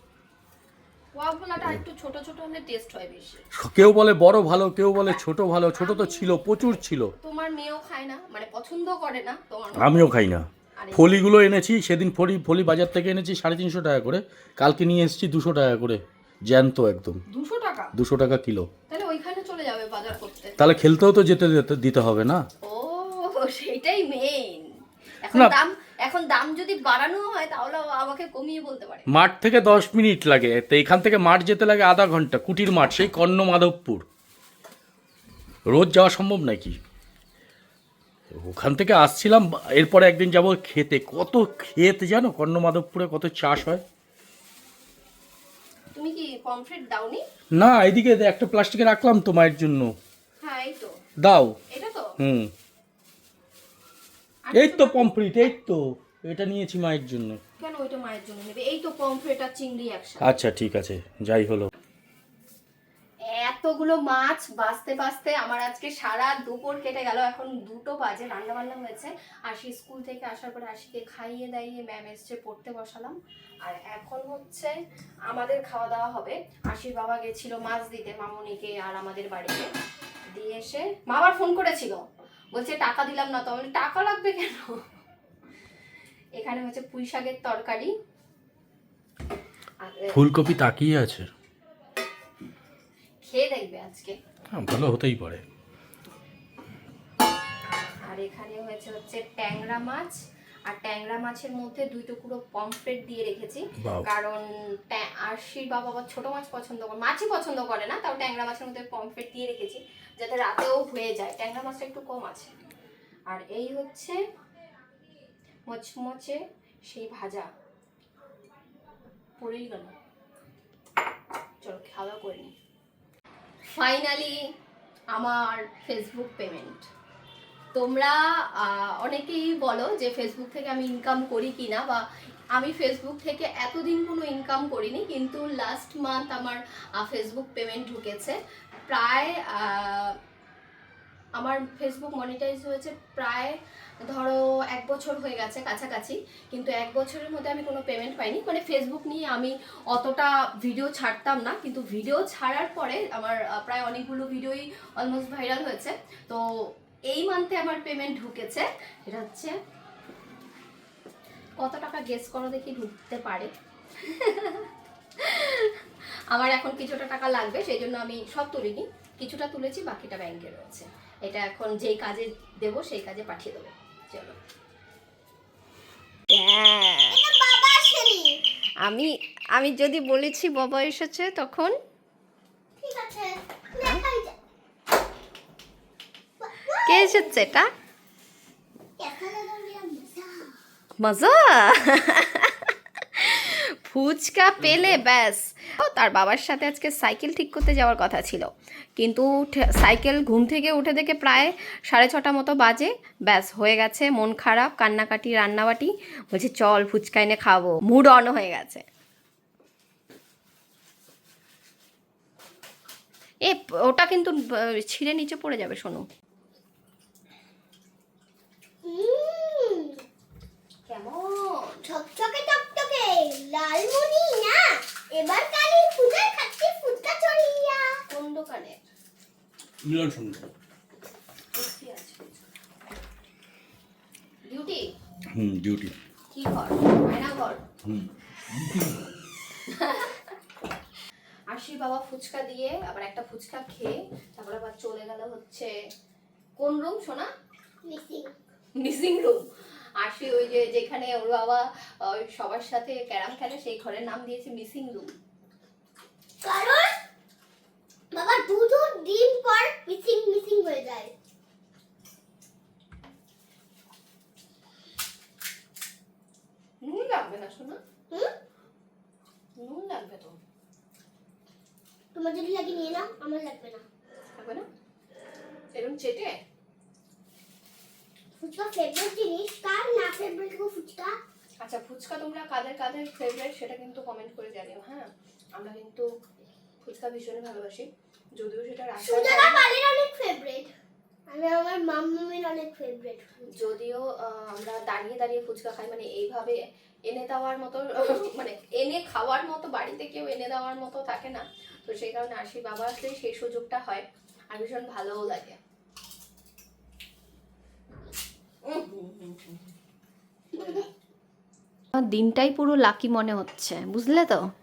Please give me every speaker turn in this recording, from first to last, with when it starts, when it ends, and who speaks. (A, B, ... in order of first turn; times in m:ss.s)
0:01.1-0:03.4 A
0:03.6-0:07.1 B
0:05.8-0:06.7 A
0:07.2-0:10.1 A
0:09.8-0:17.2 B
0:10.8-0:11.2 A
0:17.3-0:17.9 A
0:18.0-0:18.7 B
0:18.9-0:20.6 A
0:20.6-0:22.4 B
0:22.6-0:29.1 A
0:29.1-0:34.0 B
0:35.7-0:36.8 B
0:38.3-0:43.8 B
0:45.9-0:47.2 A
0:47.6-0:49.9 B
0:50.4-0:51.0 A
0:51.2-0:51.6 B
0:51.7-0:52.1 A
0:52.2-0:52.5 B
0:54.4-0:55.1 A
0:54.6-0:57.4 B
0:57.6-1:00.4 A
1:00.2-1:01.7 B
1:03.3-1:14.8 A
1:15.3-1:19.7 A
1:20.4-1:22.0 A
1:22.5-1:24.8 A
1:26.4-1:27.9 A
1:29.8-1:30.2 A
1:30.1-1:31.3 B
1:33.2-1:34.2 A
1:34.5-1:35.4 B
1:38.0-1:40.2 A
1:40.7-1:52.5 A
1:53.3-1:54.2 A
1:55.7-1:57.5 A
1:59.4-1:59.9 A
2:01.6-2:02.5 A
2:03.7-2:04.4 A
2:05.1-2:06.9 A
2:07.7-2:20.2 A
2:21.4-2:23.6 A
2:24.1-2:36.4 A
2:37.1-2:39.5 A
2:41.6-2:54.4 A
2:56.3-2:57.2 A
2:57.1-2:58.4 C
2:58.8-3:01.7 A
3:02.8-3:04.4 C
3:06.4-3:07.6 C
3:06.9-3:07.7 A
3:09.0-3:10.6 C
3:11.0-3:28.8 A
3:33.4-3:36.0 A
3:38.8-3:40.0 C
3:40.9-3:41.8 A
3:41.9-3:48.0 C
3:48.1-3:48.8 A
3:49.8-3:50.5 B
3:51.5-3:52.3 A
3:54.5-3:54.8 A
3:55.4-3:56.0 B
3:56.3-3:57.6 A
3:57.8-3:59.0 B
3:59.7-4:00.3 A
4:01.5-4:05.7 A
4:06.6-4:07.3 A
4:07.9-4:08.3 C
4:08.8-4:09.4 A
4:10.0-4:15.1 A
4:16.4-4:17.0 C
4:18.1-4:21.1 C
4:26.8-4:27.8 A
4:29.6-4:30.4 A
4:32.1-4:33.8 C
4:34.4-4:34.7 A
4:35.7-4:36.3 A
4:38.4-4:41.2 C
4:41.6-4:46.1 A
4:46.8-4:49.7 A
4:49.0-4:50.7 C
4:51.3-4:53.5 C
4:53.6-5:05.6 A
5:08.7-5:09.7 A
5:10.5-5:10.9 A
5:12.0-5:14.4 A